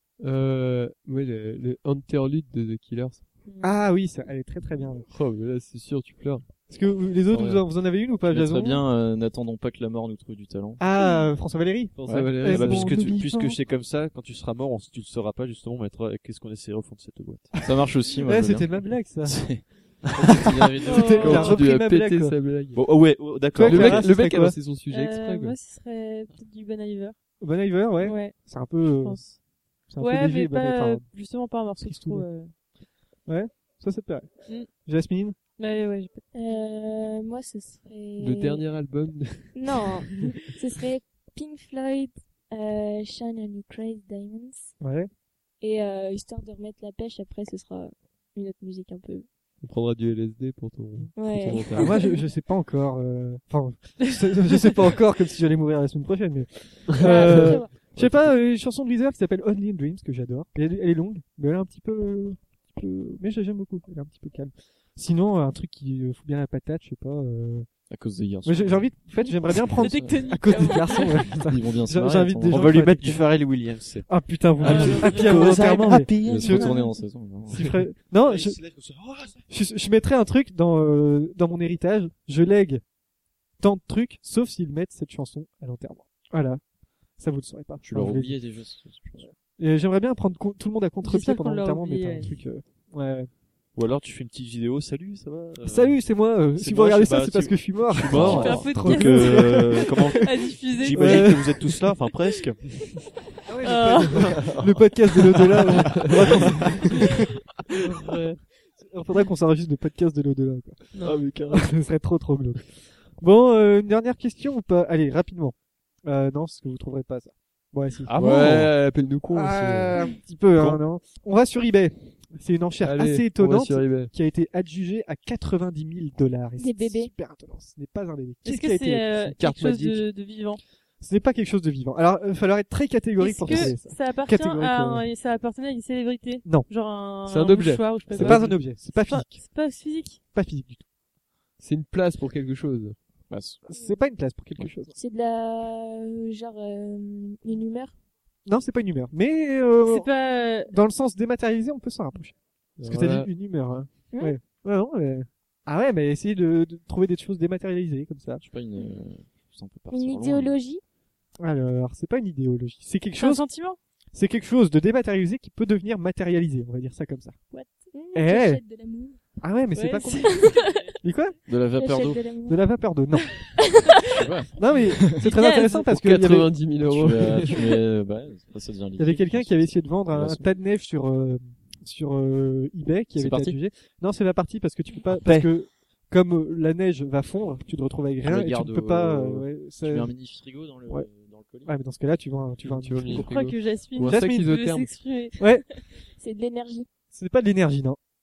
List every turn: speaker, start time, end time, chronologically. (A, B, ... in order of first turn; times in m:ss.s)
0:00.2-0:03.2 A
0:03.4-0:03.7 B
0:03.6-0:05.0 C
0:05.1-0:06.4 A
0:06.7-0:08.8 C
0:07.3-0:07.6 D
0:08.3-0:10.8 D
0:10.8-0:13.6 C
0:12.0-0:13.0 A
0:12.0-0:12.3 D
0:12.4-0:17.5 E
0:17.6-0:21.6 D
0:18.2-0:19.5 C
0:20.4-0:22.4 C
0:20.8-0:21.5 B
0:21.2-0:22.8 A
0:22.7-0:24.1 E
0:23.5-0:24.6 C
0:23.6-0:25.5 A
0:24.9-0:27.1 B
0:27.4-0:29.2 C
0:28.0-0:28.4 B
0:28.9-0:29.4 B
0:29.9-0:31.0 C
0:30.0-0:32.5 B
0:31.8-0:32.3 C
0:33.3-0:35.4 C
0:35.6-0:36.6 B
0:36.3-0:38.6 F
0:38.2-0:40.2 A
0:39.5-0:44.7 F
0:44.8-0:45.1 C
0:45.6-0:49.2 F
0:49.6-0:52.0 A
0:51.1-0:52.1 F
0:51.7-1:07.7 C
0:57.0-0:57.8 F
0:57.0-0:57.6 A
1:07.9-1:08.9 D
1:08.4-1:13.2 C
1:09.5-1:10.2 D
1:09.7-1:11.3 B
1:11.0-1:12.8 D
1:12.5-1:14.0 E
1:14.1-1:16.8 C
1:14.6-1:15.4 B
1:14.6-1:16.7 E
1:16.2-1:17.7 D
1:16.6-1:16.9 B
1:17.5-1:18.6 C
1:18.2-1:19.4 E
1:19.5-1:22.8 C
1:23.6-1:26.6 C
1:27.2-1:28.4 C
1:27.8-1:29.3 D
1:29.2-1:33.3 C
1:31.0-1:32.3 B
1:33.8-1:36.0 E
1:35.6-1:40.3 C
1:36.6-1:42.9 E
1:38.1-1:38.7 D
1:38.3-1:41.4 B
1:40.9-1:41.8 C
1:43.5-1:47.2 C
1:43.6-1:44.4 B
1:46.0-1:46.7 A
1:47.1-1:48.4 B
1:48.8-1:50.8 C
1:50.9-1:51.2 B
1:51.0-1:51.7 A
1:51.5-1:52.6 C
1:53.2-1:55.5 C
1:56.0-1:58.1 C
1:58.1-1:58.7 D
1:58.2-1:59.9 A
1:59.3-2:09.1 C
2:02.8-2:04.1 A
2:06.6-2:07.1 F
2:08.4-2:10.6 B
2:09.3-2:10.0 A
2:11.0-2:15.1 C
2:13.2-2:20.2 B
2:17.2-2:18.6 A
2:18.1-2:19.4 C
2:20.3-2:20.8 C
2:21.6-2:23.0 A
2:23.3-2:23.6 D
2:23.7-2:24.9 C
2:24.9-2:27.9 F
2:28.4-2:30.1 C
2:29.8-2:30.7 B
2:30.7-2:38.4 C
2:32.8-2:33.3 A
2:34.1-2:34.4 F
2:38.4-2:40.5 D
2:39.9-2:40.8 F
2:41.4-2:43.4 C
2:43.2-2:43.8 B
2:44.1-2:47.4 C
2:47.5-2:49.2 F
2:48.1-2:48.6 C
2:49.4-2:51.4 C
2:49.7-2:50.8 B
2:50.2-2:50.8 F
2:51.5-2:52.2 D
2:51.8-2:52.6 F
2:52.5-2:53.3 C
2:53.3-2:54.2 F
2:54.0-2:55.2 D
2:54.6-2:56.5 C
2:55.2-2:55.7 B
2:55.3-2:57.6 A
2:56.8-3:00.5 D
2:59.0-3:10.1 C
3:03.2-3:03.6 D
3:08.2-3:11.7 D
3:11.6-3:13.3 C
3:12.6-3:14.9 A
3:13.1-3:15.4 B
3:14.0-3:14.5 C
3:15.4-3:15.6 C
3:16.1-3:16.9 F
3:17.1-3:18.0 C